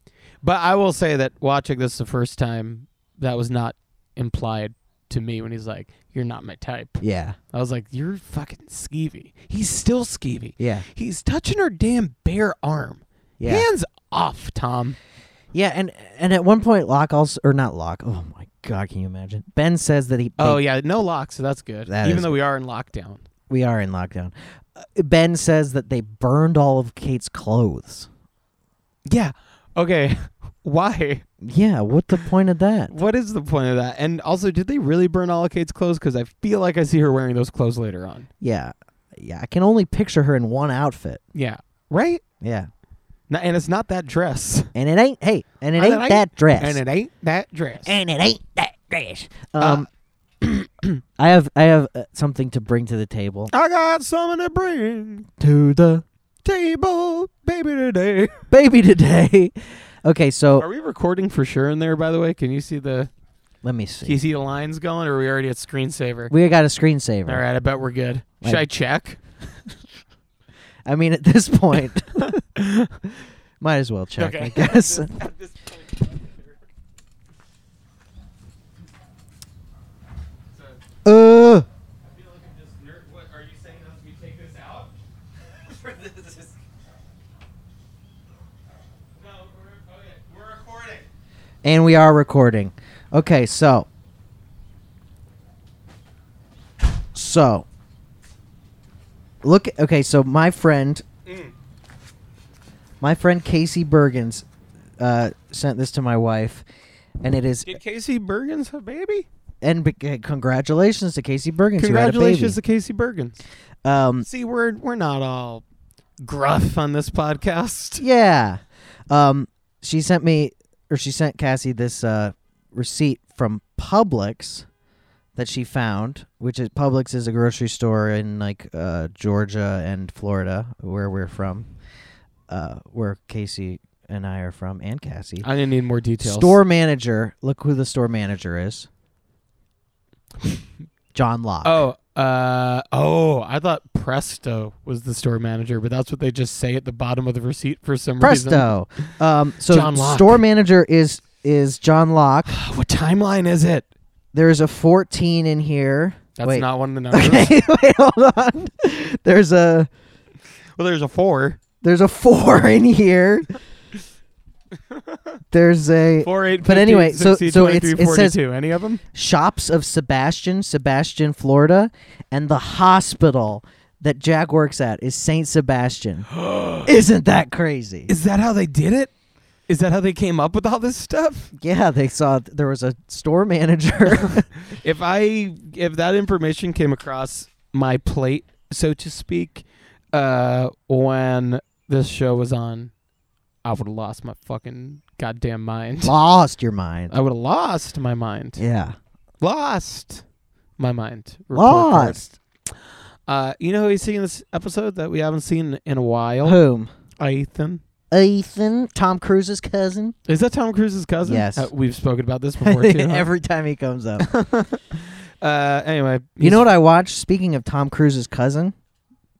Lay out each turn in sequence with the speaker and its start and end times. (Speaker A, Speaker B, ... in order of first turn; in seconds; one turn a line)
Speaker A: 0.4-15.0
Speaker B: 7.0-7.4
Speaker B: 10.6-10.8
Speaker B: 13.4-13.7
Speaker B: 15.5-20.6
Speaker A: 20.4-23.2
Speaker B: 21.9-22.3
Speaker B: 23.5-28.1
Speaker A: 29.1-31.2
Speaker B: 31.4-32.9
Speaker A: 32.9-38.3
Speaker B: 38.4-41.2
Speaker A: 41.3-42.2
Speaker B: 42.4-42.7
Speaker A: 43.3-44.7
Speaker B: 44.7-46.8
Speaker A: 45.8-48.0
Speaker B: 47.8-49.9
Speaker A: 49.6-49.9
Speaker B: 51.2-53.5
Speaker A: 53.5-55.3
Speaker B: 55.4-56.0
Speaker A: 56.4-58.4
Speaker B: 58.5-60.7
Speaker A: 60.6-63.1
Speaker B: 63.6-64.2
Speaker A: 64.0-66.3
Speaker B: 66.3-67.4
Speaker A: 67.2-69.2
Speaker B: 70.8-72.4
Speaker A: 72.1-72.9
Speaker B: 73.6-75.1
Speaker A: 74.2-76.6
Speaker B: 81.0-81.7
Speaker A: 82.0-84.9
Speaker A: 85.6-86.5
Speaker A: 89.2-91.0
Speaker B: 91.6-93.9
Speaker B: 97.1-97.7
Speaker B: 99.4-101.0
Speaker A: 101.3-101.5
Speaker B: 103.0-104.5
Speaker B: 105.0-106.6
Speaker B: 107.2-107.8
Speaker A: 107.7-109.3
Speaker B: 109.6-112.6
Speaker A: 111.8-113.4
Speaker B: 113.8-114.2
Speaker A: 114.2-115.6
Speaker A: 116.2-118.0
Speaker B: 118.0-124.7
Speaker B: 125.3-131.7
Speaker B: 132.5-135.5
Speaker A: 135.4-136.6
Speaker B: 136.2-138.9
Speaker B: 141.1-141.8
Speaker A: 141.6-148.7
Speaker B: 148.2-152.5
Speaker A: 149.7-150.4
Speaker A: 152.5-153.9
Speaker B: 154.3-159.9
Speaker A: 156.4-157.5
Speaker A: 160.8-161.6
Speaker B: 161.8-163.5
Speaker A: 164.9-165.4
Speaker B: 165.5-168.4
Speaker A: 166.2-169.0
Speaker B: 169.1-176.3
Speaker A: 176.3-176.9
Speaker B: 176.8-178.1
Speaker A: 178.1-179.1
Speaker A: 179.7-181.5
Speaker B: 181.6-184.5
Speaker A: 184.1-192.9
Speaker A: 193.6-196.1
Speaker B: 196.0-197.1
Speaker A: 197.1-198.6
Speaker B: 198.6-198.9
Speaker A: 199.4-200.2
Speaker A: 200.8-202.2
Speaker B: 201.5-202.3
Speaker A: 203.3-206.6
Speaker B: 206.4-206.9
Speaker A: 207.2-207.8
Speaker B: 208.1-210.1
Speaker A: 210.3-213.3
Speaker B: 211.2-211.7
Speaker B: 212.6-214.3
Speaker A: 214.2-216.7
Speaker B: 216.4-218.7